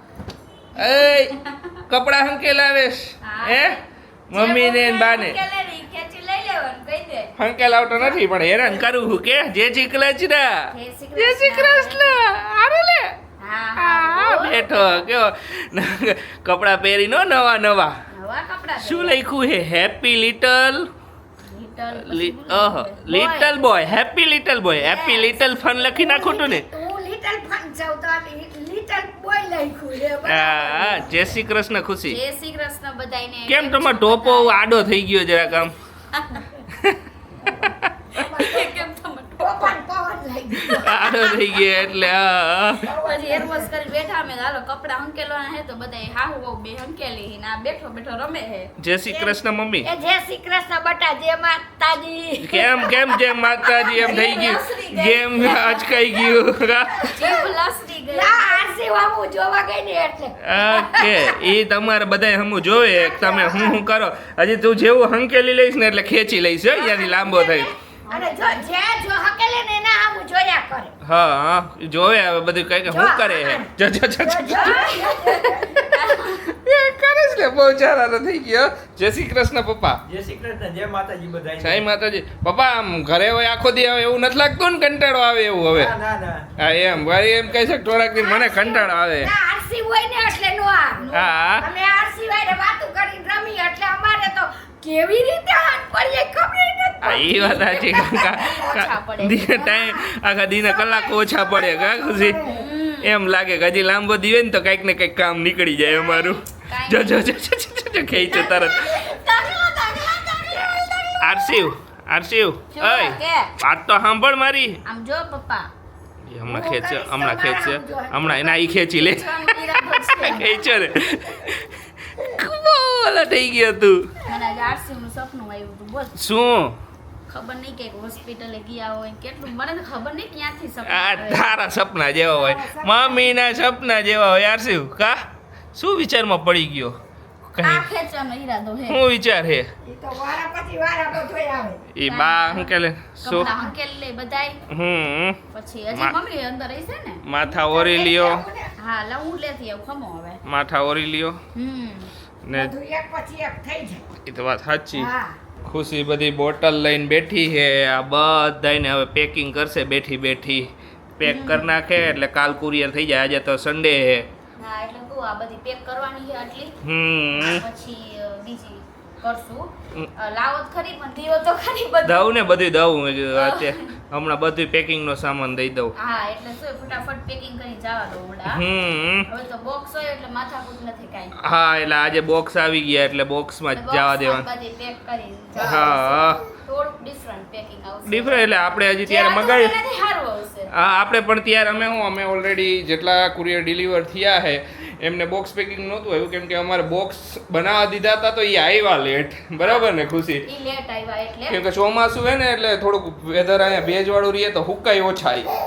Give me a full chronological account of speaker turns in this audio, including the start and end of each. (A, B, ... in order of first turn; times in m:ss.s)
0:00.8-0:01.3 A
0:00.8-0:01.7 B
0:01.9-0:03.8 A
0:03.2-0:07.4 B
0:04.3-0:05.4 A
0:07.4-0:13.1 A
0:07.9-0:08.8 B
0:10.7-0:12.1 B
0:13.4-0:15.1 B
0:13.8-0:18.0 A
0:18.1-0:19.2 B
0:18.8-0:20.9 A
0:21.4-0:23.6 B
0:22.0-0:26.7 A
0:24.8-0:25.4 B
0:25.6-0:31.4 C
0:30.2-0:32.2 A
0:32.1-0:34.7 B
0:33.5-0:35.7 A
0:36.1-0:36.6 B
0:36.7-0:37.0 A
0:37.4-0:38.9 C
0:38.2-0:39.8 B
0:39.4-0:41.4 C
0:40.7-0:42.9 A
0:42.8-0:43.7 C
0:43.0-0:48.7 B
0:48.8-0:49.9 A
0:49.1-0:53.4 C
0:52.4-0:57.2 A
0:53.7-0:56.4 B
0:57.0-0:58.6 B
0:57.2-0:57.5 C
0:58.1-1:01.4 C
1:00.4-1:07.7 A
1:02.7-1:03.8 C
1:06.7-1:10.9 C
1:08.1-1:08.7 B
1:11.0-1:20.0 A
1:12.9-1:15.9 C
1:14.5-1:16.4 B
1:20.1-1:21.8 D
1:21.6-1:26.0 A
1:25.8-1:26.5 D
1:26.6-1:29.3 A
1:28.2-1:38.8 C
1:31.0-1:31.4 B
1:31.1-1:31.6 A
1:37.0-1:42.4 A
1:38.3-1:40.0 B
1:40.6-1:42.7 C
1:42.4-1:43.1 B
1:43.0-1:49.1 A
1:46.7-1:47.3 B
1:48.3-1:51.7 C
1:50.5-1:54.8 A
1:52.7-1:53.5 B
1:54.8-1:55.7 B
1:56.3-2:04.1 A
1:56.5-1:58.7 C
1:58.9-2:00.7 B
2:04.3-2:06.2 B
2:06.2-2:06.8 A
2:07.3-2:11.6 B
2:10.9-2:15.2 A
2:12.4-2:13.4 C
2:15.7-2:17.0 A
2:17.6-2:19.0 B
2:17.6-2:17.9 A
2:18.9-2:19.7 A
2:19.8-2:21.8 C
2:22.0-2:23.5 A
2:22.1-2:22.7 B
2:23.2-2:24.6 B
2:23.4-2:23.8 C
2:24.7-2:25.4 A
2:25.5-2:27.2 B
2:27.2-2:28.4 A
2:27.5-2:28.7 C
2:28.8-2:30.4 B
2:30.4-2:31.4 A
2:31.6-2:32.1 B
2:32.4-2:32.7 A
2:32.5-2:34.0 C
2:34.3-2:35.1 A
2:34.9-2:35.4 C
2:35.6-2:44.3 A
2:41.2-2:41.7 B
2:44.6-2:46.8 B
2:46.8-2:47.6 A
2:47.4-2:52.3 B
2:52.0-2:56.0 A
2:53.3-2:53.9 B
2:56.0-2:58.6 B
2:58.5-2:59.3 A
2:59.3-3:01.4 B
3:01.4-3:04.4 A
3:03.7-3:10.7 B
3:05.6-3:06.4 A
3:08.1-3:09.7 A
3:10.7-3:20.5 A
3:20.4-3:21.6 B
3:21.5-3:25.5 A